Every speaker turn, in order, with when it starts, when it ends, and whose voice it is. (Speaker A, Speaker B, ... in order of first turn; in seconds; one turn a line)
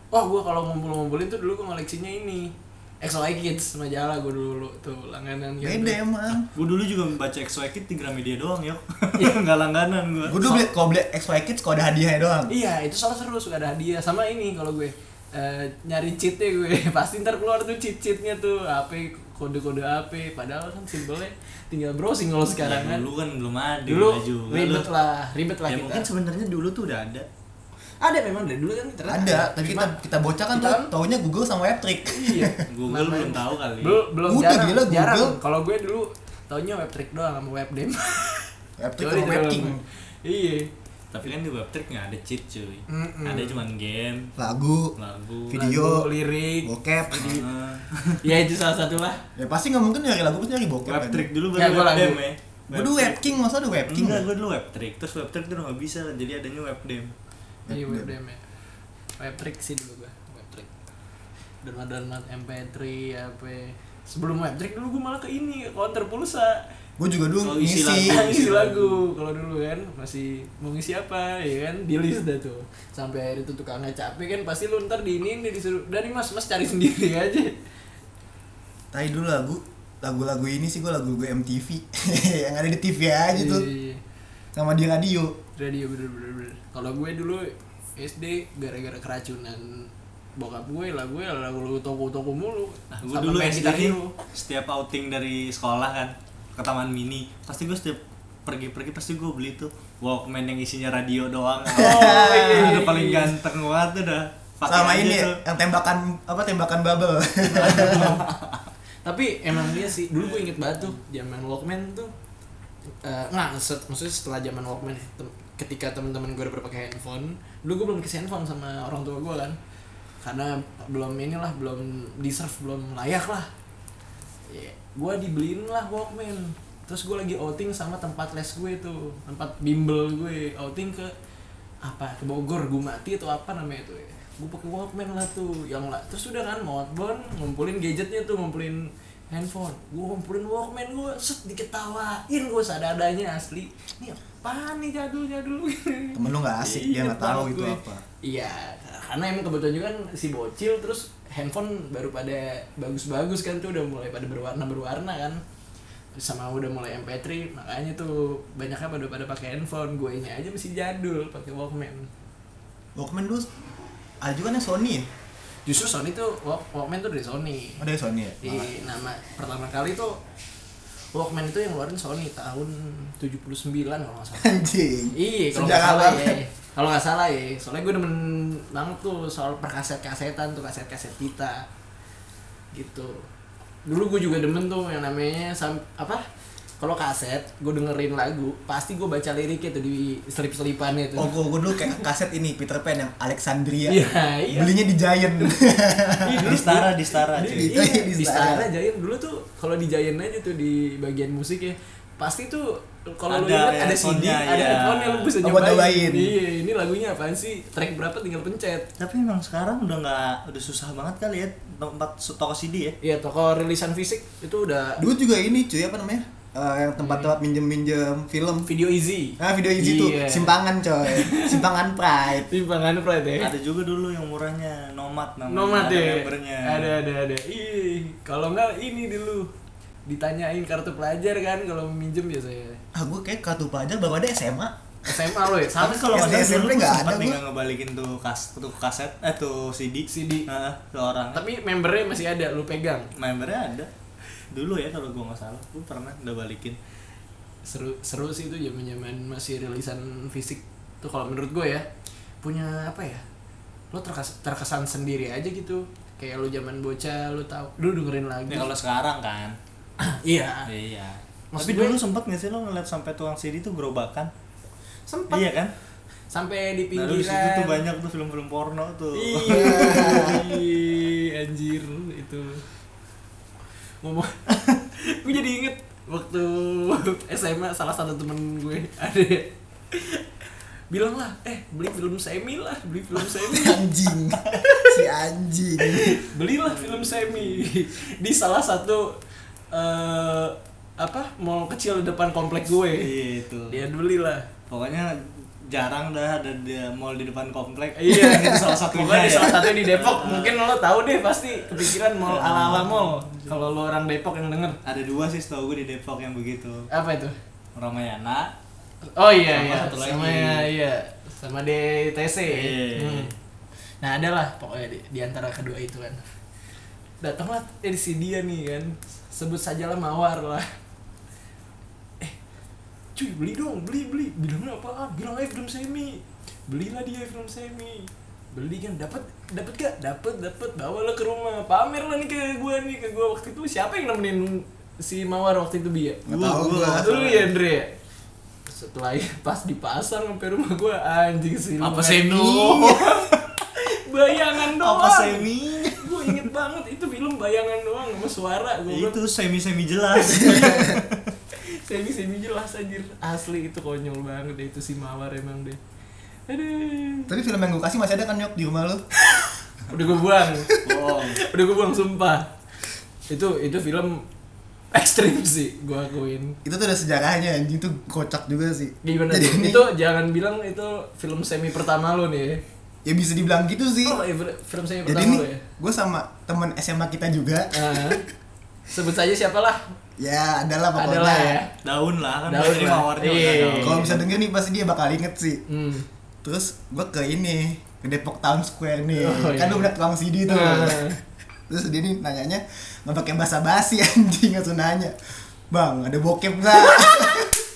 Speaker A: 0.1-6.0
Speaker B: 5.6-6.5
Speaker C: 6.3-10.6
Speaker B: 10.2-12.5
Speaker A: 12.5-23.1
Speaker C: 22.6-24.9
Speaker A: 23.9-26.0
Speaker C: 25.7-27.2
Speaker A: 28.0-30.0
Speaker B: 29.1-32.6
Speaker A: 30.5-30.9
Speaker A: 32.1-40.7
Speaker C: 32.7-34.0
Speaker B: 34.3-35.4
Speaker B: 38.8-39.8
Speaker C: 41.1-44.3
Speaker A: 42.9-43.6
Speaker B: 44.4-45.0
Speaker C: 45.0-45.5
Speaker B: 45.5-46.1
Speaker A: 45.5-46.7
Speaker B: 46.6-47.4
Speaker C: 47.1-48.3
Speaker A: 48.2-49.2
Speaker B: 49.4-51.3
Speaker C: 50.9-57.1
Speaker A: 51.5-52.2
Speaker B: 52.7-54.3
Speaker B: 57.7-58.1
Speaker A: 57.7-58.4
Speaker A: 59.2-60.7
Speaker A: 61.6-66.6
Speaker B: 67.0-68.3
Speaker C: 67.4-69.0
Speaker A: 68.0-77.5
Speaker B: 78.9-83.7
Speaker A: 83.3-84.0
Speaker B: 84.5-85.3
Speaker A: 85.6-94.1
Speaker C: 92.9-105.4
Speaker A: 101.7-103.3
Speaker B: 101.7-102.8
Speaker B: 104.7-108.2
Speaker A: 107.5-108.2
Speaker C: 107.7-108.5
Speaker A: 109.0-112.1
Speaker C: 110.2-110.5
Speaker A: 113.0-119.6
Speaker A: 120.2-123.5
Speaker A: 124.5-131.1
Speaker A: 131.8-155.4
Speaker B: 146.1-148.0
Speaker A: 156.1-162.1
Speaker B: 162.9-163.5
Speaker B: 164.2-165.1
Speaker A: 165.7-167.9
Speaker B: 167.8-168.7
Speaker A: 168.4-170.2
Speaker A: 171.1-181.7
Speaker B: 174.3-176.4
Speaker A: 182.7-183.2
Speaker A: 183.8-186.2
Speaker A: 186.8-192.0
Speaker B: 191.2-196.6
Speaker A: 193.9-194.7
Speaker A: 196.2-208.9
Speaker C: 196.4-197.7
Speaker B: 197.5-198.7
Speaker C: 203.3-205.3
Speaker B: 205.4-206.3
Speaker C: 209.0-212.9
Speaker A: 213.0-215.0
Speaker B: 215.0-218.7
Speaker A: 217.0-217.3
Speaker A: 218.7-220.5
Speaker B: 219.4-222.5
Speaker A: 221.0-221.6
Speaker A: 222.4-223.5
Speaker C: 223.4-227.0
Speaker A: 225.5-229.5
Speaker A: 230.1-232.8
Speaker B: 232.9-235.3
Speaker A: 235.0-236.4
Speaker C: 235.7-241.4
Speaker B: 236.1-237.4
Speaker A: 240.1-240.5
Speaker A: 241.3-243.1
Speaker C: 243.2-243.9
Speaker C: 244.5-246.8
Speaker A: 247.6-251.8
Speaker A: 252.4-253.2
Speaker A: 253.9-258.7
Speaker C: 258.5-259.6
Speaker A: 260.0-260.7
Speaker C: 260.7-264.3
Speaker A: 261.5-262.0
Speaker B: 265.1-265.4
Speaker C: 265.3-265.7
Speaker A: 266.3-267.8
Speaker C: 266.9-270.5
Speaker A: 269.1-272.6
Speaker B: 269.5-270.4
Speaker A: 274.0-280.2
Speaker A: 280.9-283.8
Speaker B: 283.4-286.2
Speaker A: 285.8-289.1
Speaker C: 286.6-287.6
Speaker A: 289.7-293.1
Speaker C: 293.0-293.8
Speaker A: 293.7-294.5
Speaker C: 294.7-300.6
Speaker A: 297.9-304.8
Speaker B: 298.1-298.6
Speaker C: 301.7-303.7
Speaker C: 304.8-306.9
Speaker A: 306.9-307.4
Speaker C: 307.8-308.5
Speaker A: 309.1-313.3
Speaker C: 309.5-310.7
Speaker C: 312.5-313.3
Speaker A: 314.0-316.2
Speaker A: 317.2-320.7
Speaker A: 323.1-336.2
Speaker B: 336.2-337.1
Speaker C: 336.3-337.5
Speaker A: 337.0-337.9
Speaker A: 338.7-349.2
Speaker C: 341.8-343.0
Speaker C: 344.6-346.4
Speaker C: 348.9-351.2
Speaker A: 350.1-350.9
Speaker B: 350.4-351.0
Speaker A: 351.6-355.8
Speaker A: 356.5-357.3
Speaker B: 357.3-359.0
Speaker A: 359.3-362.5
Speaker C: 360.9-361.4
Speaker A: 363.3-364.2
Speaker A: 364.9-366.6
Speaker B: 366.6-369.9
Speaker A: 369.0-372.6
Speaker B: 373.0-374.2
Speaker A: 374.0-375.6
Speaker B: 375.0-378.2
Speaker A: 377.7-378.2
Speaker A: 378.9-379.8
Speaker B: 380.2-381.6
Speaker A: 380.9-381.7
Speaker C: 381.8-384.2
Speaker A: 382.5-384.1
Speaker B: 383.8-385.6
Speaker A: 385.7-386.1
Speaker B: 386.4-391.1
Speaker A: 389.1-389.9
Speaker A: 390.5-391.2
Speaker B: 391.7-395.1
Speaker B: 395.7-397.6
Speaker A: 396.9-397.5